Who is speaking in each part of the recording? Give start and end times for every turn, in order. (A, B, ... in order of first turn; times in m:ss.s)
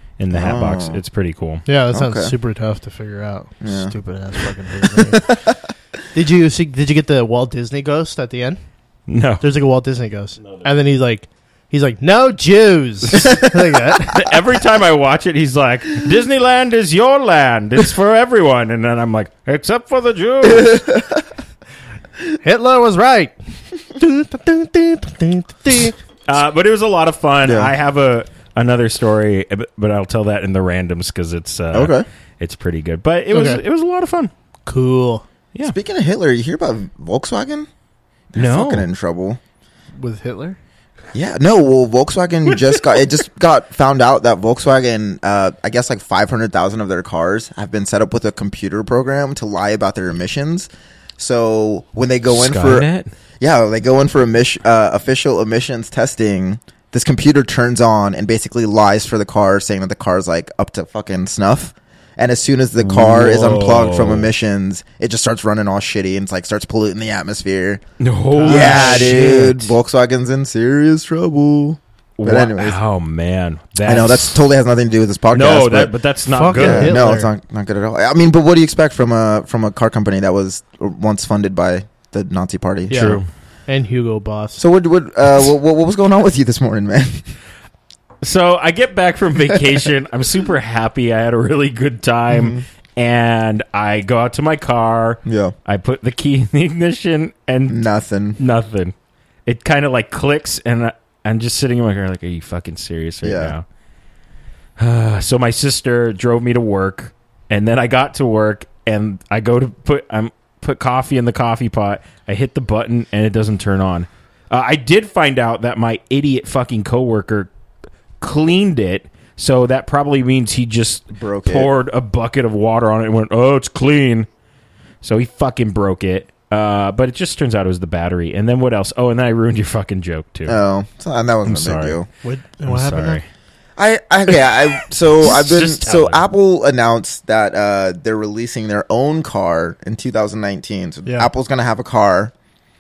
0:00.2-0:01.6 A
0:00.3-0:01.0 B
0:01.7-0:05.3 C
0:01.9-0:02.3 B
0:03.6-0:04.0 B
0:04.8-0:05.7 B
0:06.1-0:08.6 C
0:09.1-0:09.4 A
0:09.4-0:14.3 C
0:10.4-0:10.7 A
0:14.0-0:20.9 A
0:20.4-0:21.3 B
0:22.4-0:26.0 C
0:26.3-0:34.3 A
0:27.4-0:27.7 B
0:31.7-0:32.1 B
0:33.3-0:33.6 C
0:34.7-0:35.2 C
0:35.7-0:37.7 B
0:38.3-0:39.4 B
0:38.4-0:38.9 A
0:40.0-0:40.6 C
0:41.1-0:52.9 B
0:42.5-0:43.0 A
0:52.3-0:53.1 A
0:53.4-1:07.8 B
1:02.8-1:04.3 A
1:08.0-1:09.7 A
1:08.4-1:09.6 C
1:08.4-1:12.8 B
1:12.2-1:14.4 A
1:13.8-1:15.9 B
1:15.3-1:17.0 A
1:16.3-1:17.3 C
1:16.5-1:23.2 B
1:22.9-1:24.6 C
1:22.9-1:23.3 A
1:24.6-1:27.3 B
1:28.2-1:37.8 A
1:32.4-1:32.6 B
1:35.3-1:35.5 B
1:37.7-1:38.4 B
1:38.4-1:38.9 A
1:39.5-1:43.6 A
1:43.2-1:43.5 B
1:44.8-1:57.5 A
1:58.2-2:04.3 A
2:01.2-2:01.7 B
2:05.0-2:10.6 A
2:10.5-2:12.1 B
2:11.4-2:12.0 A
2:12.2-2:13.2 C
2:12.7-2:13.2 A
2:13.8-2:22.3 B
2:15.3-2:16.2 A